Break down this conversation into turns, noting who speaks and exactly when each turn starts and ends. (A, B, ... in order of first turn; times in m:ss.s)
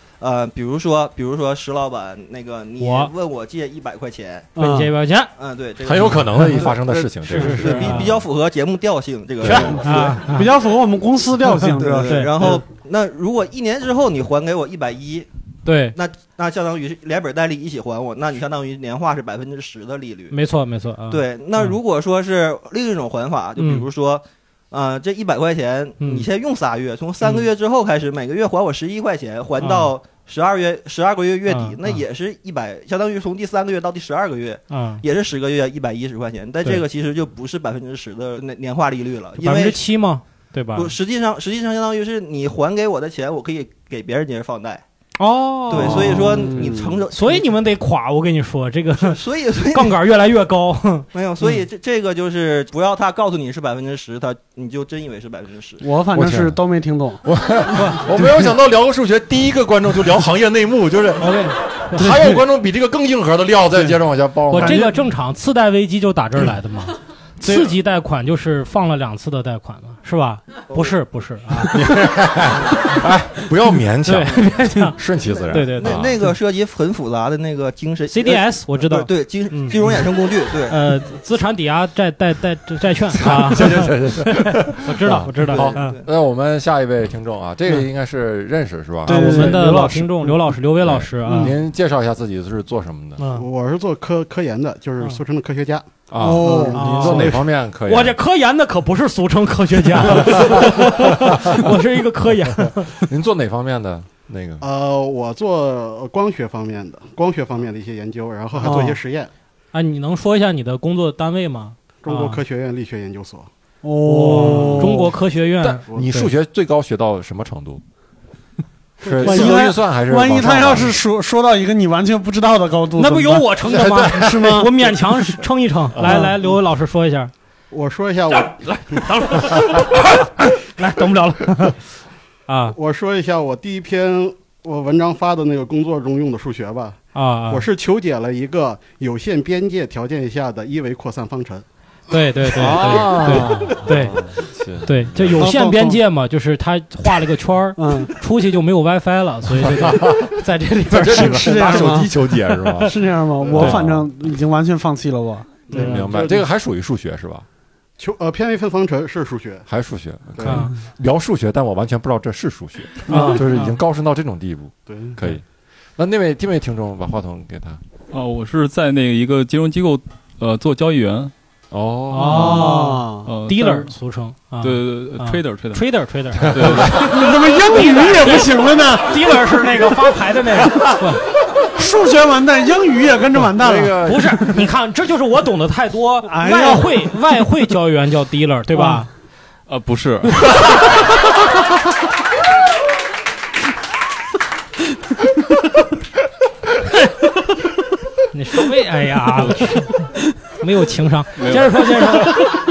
0:00.2-0:04.5 A
0:02.8-0:03.1 B
0:04.6-0:04.9 C
0:04.6-0:05.3 B
0:05.4-0:10.2 A
0:05.8-0:08.2 D
0:06.4-0:06.7 B
0:07.3-0:08.1 B
0:09.4-0:09.7 D
0:09.4-0:10.5 B
0:09.9-0:12.6 C
0:11.7-0:15.3 A
0:12.0-0:12.6 B
0:15.6-0:16.0 B
0:15.9-0:20.4 A
0:20.3-0:21.8 B
0:21.1-0:39.8 A
0:23.6-0:23.9 B
0:26.0-0:26.3 B
0:29.6-0:29.9 B
0:31.5-0:31.8 B
0:34.7-0:35.0 B
0:39.4-0:40.9 B
0:40.8-0:44.8 A
0:45.2-0:46.1 B
0:45.7-0:47.5 A
0:45.8-0:47.0 C
0:45.9-0:46.5 D
0:47.1-0:51.1 B
0:49.0-0:50.0 A
0:51.1-0:55.8 A
0:55.8-0:57.2 C
0:56.1-0:56.6 D
0:57.2-1:05.0 D
0:57.7-0:58.0 B
1:01.2-1:02.1 B
1:02.0-1:02.4 C
1:04.5-1:11.9 B
1:04.5-1:04.8 C
1:07.4-1:07.7 C
1:11.7-1:16.2 D
1:14.0-1:15.0 B
1:15.5-1:16.0 B
1:15.5-1:20.8 A
1:18.1-1:19.8 B
1:20.7-1:26.0 B
1:23.1-1:29.8 D
1:25.5-1:26.0 A
1:29.0-1:30.5 C
1:29.1-1:31.5 B
1:30.8-1:33.2 D
1:31.2-1:31.6 C
1:33.2-1:33.5 B
1:33.3-1:37.1 E
1:36.1-1:38.2 D
1:36.2-1:37.4 C
1:36.7-1:43.0 B
1:40.1-1:41.6 D
1:43.0-1:44.6 D
1:44.6-1:49.3 E
1:48.6-1:49.0 C
1:49.7-1:52.4 B
1:52.0-1:53.5 E
1:53.8-1:55.1 C
1:54.0-1:56.3 B
1:54.4-1:54.9 D
1:55.6-1:57.8 D
1:59.0-2:01.0 D
1:59.0-2:04.7 C
1:59.2-1:59.6 B
2:03.0-2:07.3 B
2:03.6-2:04.9 D
2:06.0-2:06.3 D
2:06.1-2:06.3 C
2:07.7-2:09.0 E
2:08.4-2:11.8 B
2:12.5-2:12.8 B
2:12.8-2:21.6 E
2:17.1-2:17.7 B
2:22.1-2:24.2 B
2:22.5-2:25.5 D
2:22.8-2:23.7 C
2:24.8-2:31.9 B
2:25.4-2:26.0 C
2:27.8-2:28.1 C
2:29.5-2:30.4 D
2:30.9-2:34.1 D
2:31.1-2:32.2 C
2:32.8-2:36.1 C
2:33.4-2:33.7 E
2:35.7-2:36.5 E
2:35.7-2:37.5 D
2:38.0-2:39.7 E
2:39.7-2:45.4 D
2:40.4-2:40.7 E
2:40.4-2:40.7 B
2:43.1-2:43.8 B
2:43.1-2:43.4 C
2:44.9-2:45.3 E
2:46.0-2:47.8 D
2:48.1-2:51.3 F
2:51.7-2:52.8 D
2:52.1-2:57.2 B
2:52.3-2:53.5 C
2:53.2-2:53.8 F
2:54.6-2:55.8 F
2:56.5-2:57.2 F
2:56.5-2:57.1 D
2:57.0-2:59.9 C
2:57.7-3:01.2 B
3:01.8-3:04.0 C
3:03.5-3:04.6 D
3:04.0-3:09.1 B
3:06.2-3:07.1 C
3:08.7-3:09.1 C
3:09.7-3:10.9 F
3:18.3-3:22.5 B
3:21.4-3:22.3 F